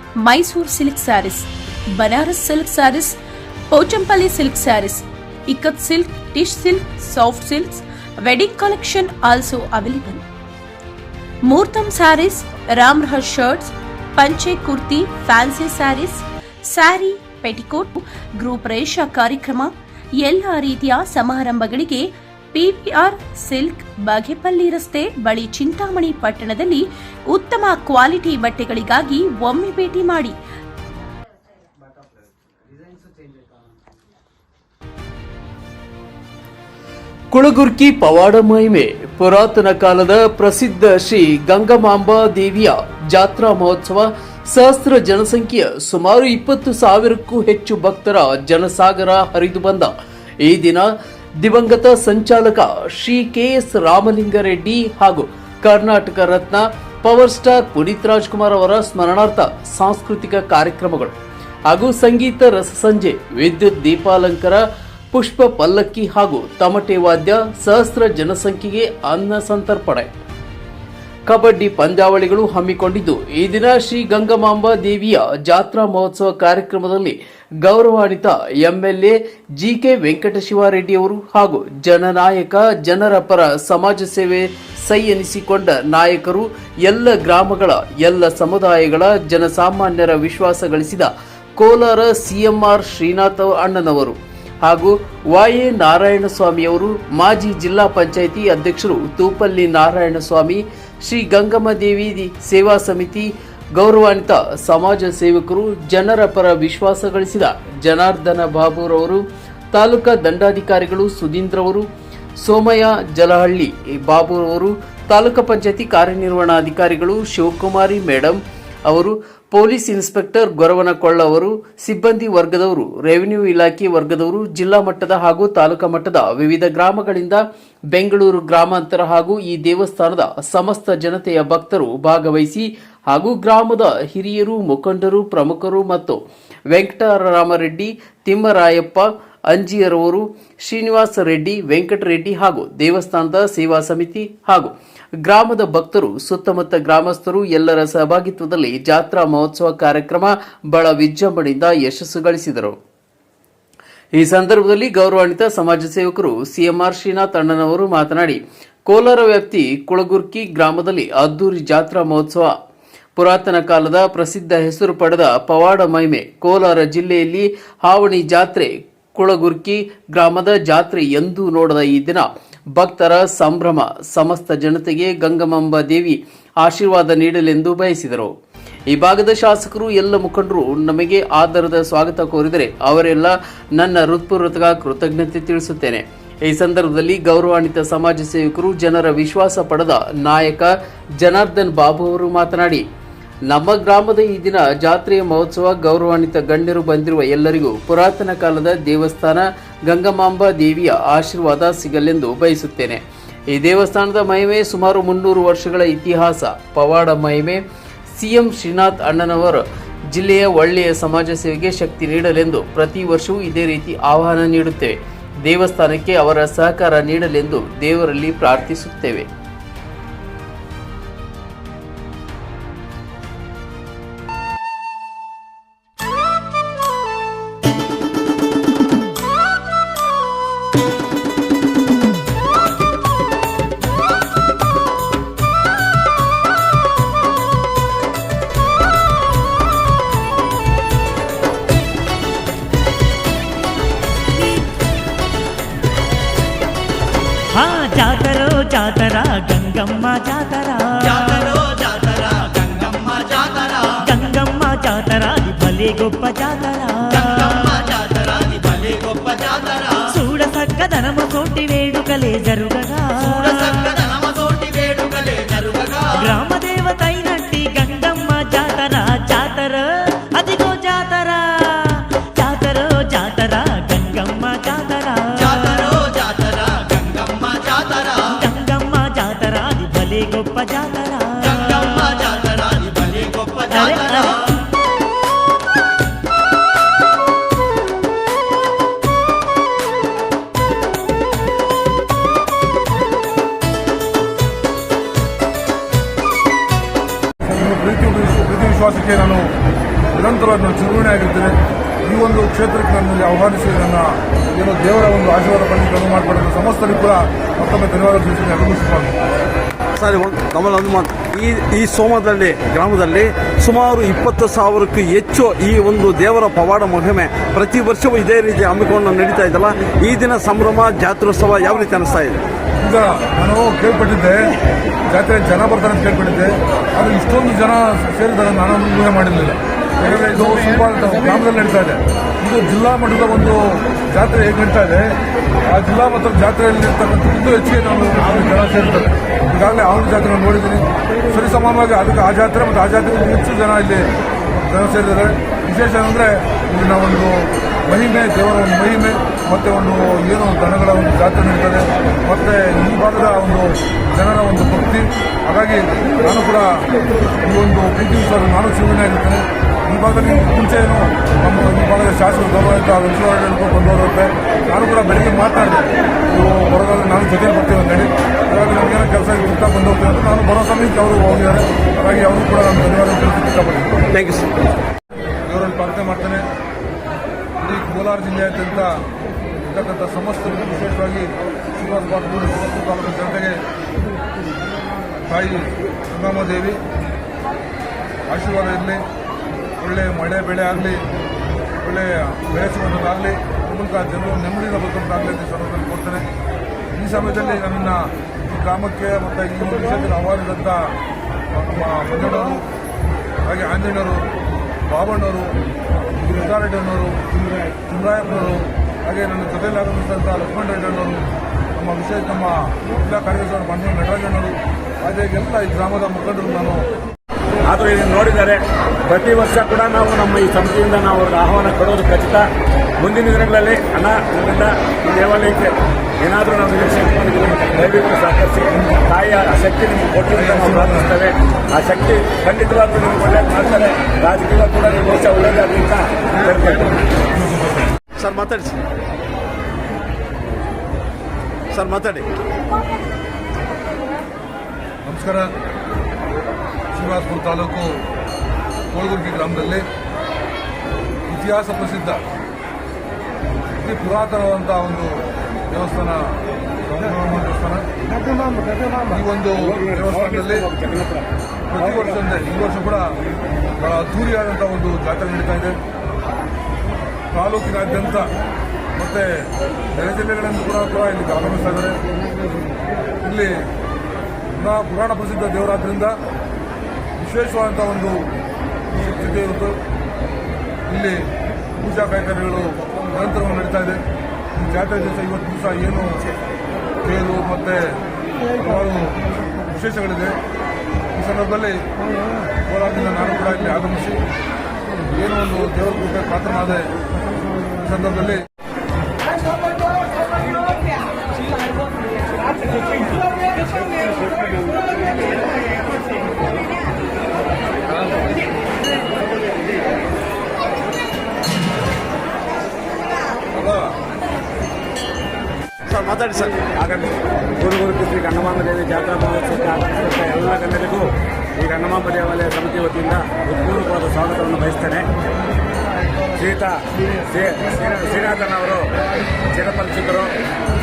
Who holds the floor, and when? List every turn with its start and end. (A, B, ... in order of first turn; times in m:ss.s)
0:00.2-0:03.2 A
0:03.7-0:10.2 A
0:11.4-0:30.4 A
0:37.3-0:49.9 B
0:50.4-1:01.2 B
1:01.7-1:10.2 B
1:11.3-1:51.9 B
1:52.4-2:16.2 B
2:16.7-2:32.8 B
2:34.2-2:42.5 B
2:43.2-2:58.3 B
2:58.9-3:12.8 B
3:13.5-3:39.3 B
4:07.5-4:11.6 C
4:11.0-4:13.9 D
4:14.0-4:17.8 C
4:17.1-4:20.0 D
4:20.1-4:24.0 C
4:23.2-4:26.3 D
4:26.2-4:35.9 C
4:35.4-4:38.2 D
4:38.3-4:42.0 C
4:41.4-4:44.5 D
4:43.7-4:44.4 C
4:57.4-4:59.5 E
5:00.1-5:09.2 E
5:10.0-5:22.4 F
5:22.8-5:24.6 E
5:25.1-5:35.2 E
5:35.7-5:44.1 E
5:44.6-5:56.9 E
5:57.4-6:14.0 E
6:14.1-6:14.5 F
6:15.5-6:16.5 E
6:17.6-6:19.0 E
6:19.7-6:23.6 E
6:25.3-6:26.8 E
6:28.3-6:29.0 E
6:29.8-6:31.0 E
6:31.8-6:36.3 E
6:36.9-6:41.0 E
6:41.5-6:42.6 E
6:43.4-6:44.3 E
6:44.9-6:45.6 E
6:46.2-6:47.2 E
6:47.9-6:56.9 E
6:57.7-7:02.5 G
7:03.0-7:16.9 G
7:10.3-7:11.2 E
7:17.4-7:17.9 E
7:18.2-7:18.8 F
7:21.7-7:22.3 F
7:25.0-7:25.5 E
7:26.9-7:28.1 E
7:28.9-7:29.9 E
7:31.3-7:32.2 E
7:33.8-7:37.9 E
7:39.1-7:40.7 E
7:39.7-7:41.3 G
7:41.7-7:43.2 E
7:43.8-7:45.8 E
7:47.3-7:48.3 E
7:49.0-7:52.0 E
7:53.2-7:53.7 E
7:54.5-7:56.2 E
7:57.2-7:58.3 E
7:58.9-7:59.8 E
8:00.9-8:04.0 E
8:04.6-8:06.3 E
8:07.0-8:08.0 E
8:08.6-8:10.4 E
8:11.2-8:11.9 E
8:12.7-8:14.2 E
8:15.1-8:16.9 E
8:17.8-8:18.5 E
8:33.6-8:33.9 E
8:35.9-8:36.7 F
8:36.8-8:45.1 G
8:46.4-8:48.9 G
8:49.5-8:50.4 G